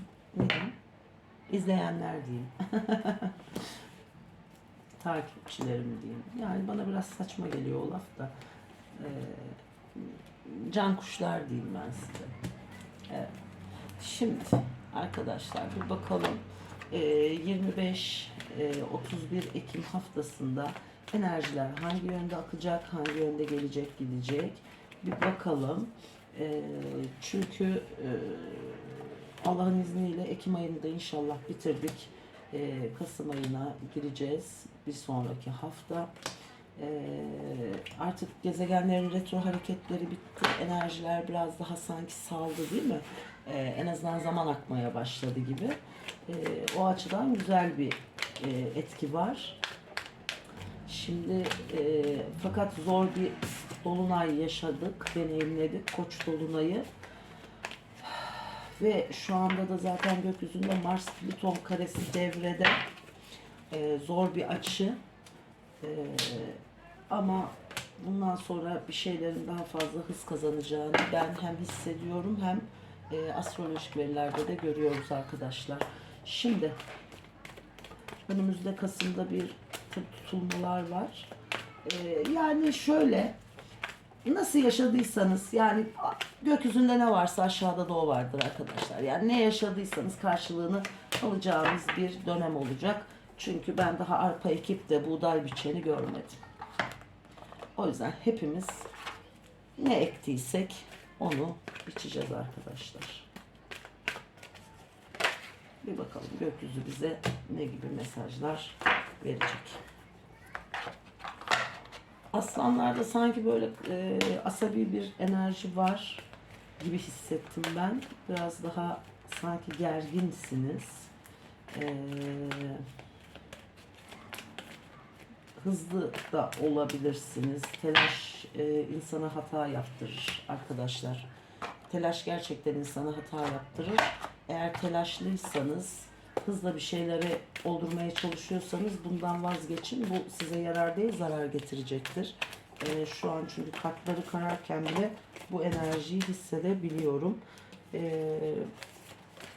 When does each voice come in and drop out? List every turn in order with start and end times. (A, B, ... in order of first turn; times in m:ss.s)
0:00.3-0:00.8 A
0:01.5-0:03.4 A
0:05.0-0:08.3 A
0:09.0-0:12.4 A
0:13.1-0:13.3 A
0:14.0-0:36.1 A
0:36.8-0:49.6 A
0:50.9-0:56.9 A
0:58.0-1:02.8 A
1:03.7-1:05.0 A
1:05.8-1:16.8 A
1:18.3-1:21.3 A
1:21.8-1:23.4 A
1:24.2-1:36.4 A
1:37.8-1:38.9 A
1:39.8-1:43.3 A
1:45.8-1:49.8 A
1:52.3-1:56.3 A
1:56.8-2:01.1 A
2:01.7-2:02.8 A
2:05.6-2:11.3 A
2:11.9-2:27.4 A
2:27.9-2:28.7 A